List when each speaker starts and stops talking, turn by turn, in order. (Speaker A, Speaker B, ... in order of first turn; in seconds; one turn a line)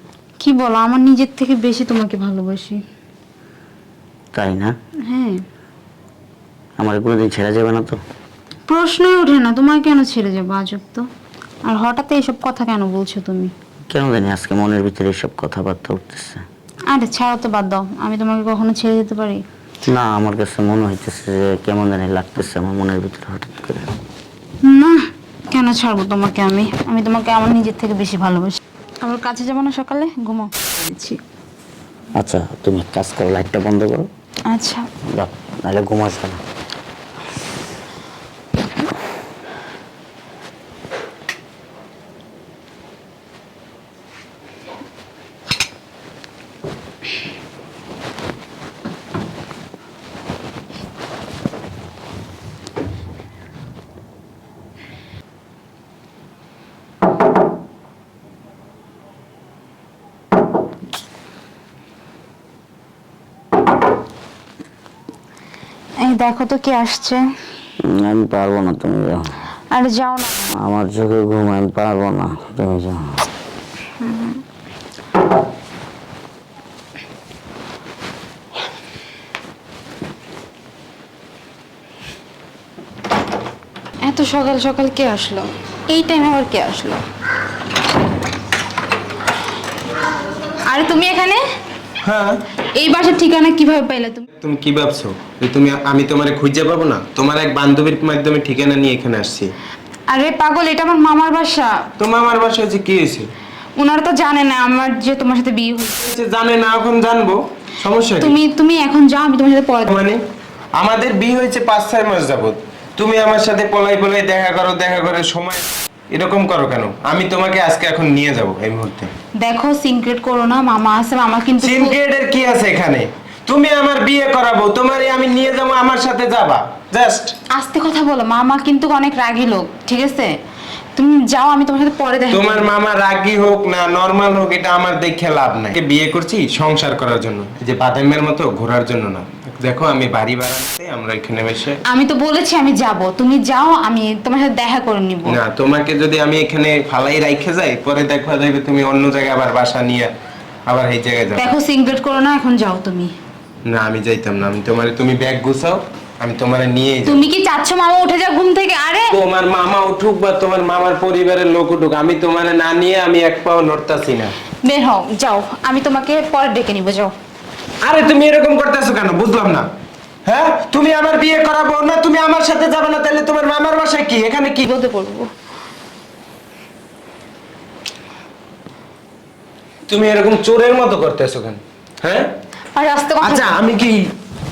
Speaker A: 0.4-2.8
Speaker B: 4.3-4.7
Speaker A: 5.1-5.4
Speaker B: 6.8-8.0
Speaker A: 8.7-11.1
Speaker A: 11.7-13.5
Speaker B: 13.9-16.4
Speaker A: 16.9-19.4
Speaker B: 19.9-23.9
Speaker A: 24.6-31.2
Speaker B: 32.2-34.1
Speaker A: 34.5-34.9
Speaker B: 35.1-36.4
Speaker A: 66.0-67.2
Speaker B: 67.8-69.3
Speaker A: 69.7-70.5
Speaker B: 70.5-73.3
Speaker A: 74.0-74.4
Speaker A: 84.0-87.0
Speaker A: 90.7-91.4
Speaker C: 92.0-92.4
Speaker A: 92.7-94.2
Speaker C: 94.4-99.5
Speaker A: 100.1-101.8
Speaker C: 102.0-103.3
Speaker A: 103.8-106.0
Speaker C: 106.0-108.3
Speaker A: 108.2-109.9
Speaker C: 109.9-110.2
Speaker C: 110.8-119.1
Speaker A: 119.4-121.9
Speaker C: 121.6-127.3
Speaker A: 127.5-130.3
Speaker A: 130.9-132.7
Speaker C: 132.3-141.8
Speaker A: 141.8-145.4
Speaker C: 145.3-150.1
Speaker C: 150.7-151.6
Speaker A: 151.3-153.1
Speaker C: 153.7-157.2
Speaker A: 157.1-159.1
Speaker C: 159.1-164.3
Speaker A: 164.6-167.1
Speaker C: 167.8-169.7
Speaker C: 170.2-174.7
Speaker A: 174.7-175.3
Speaker C: 179.9-182.3
Speaker A: 182.7-183.6
Speaker C: 183.2-184.1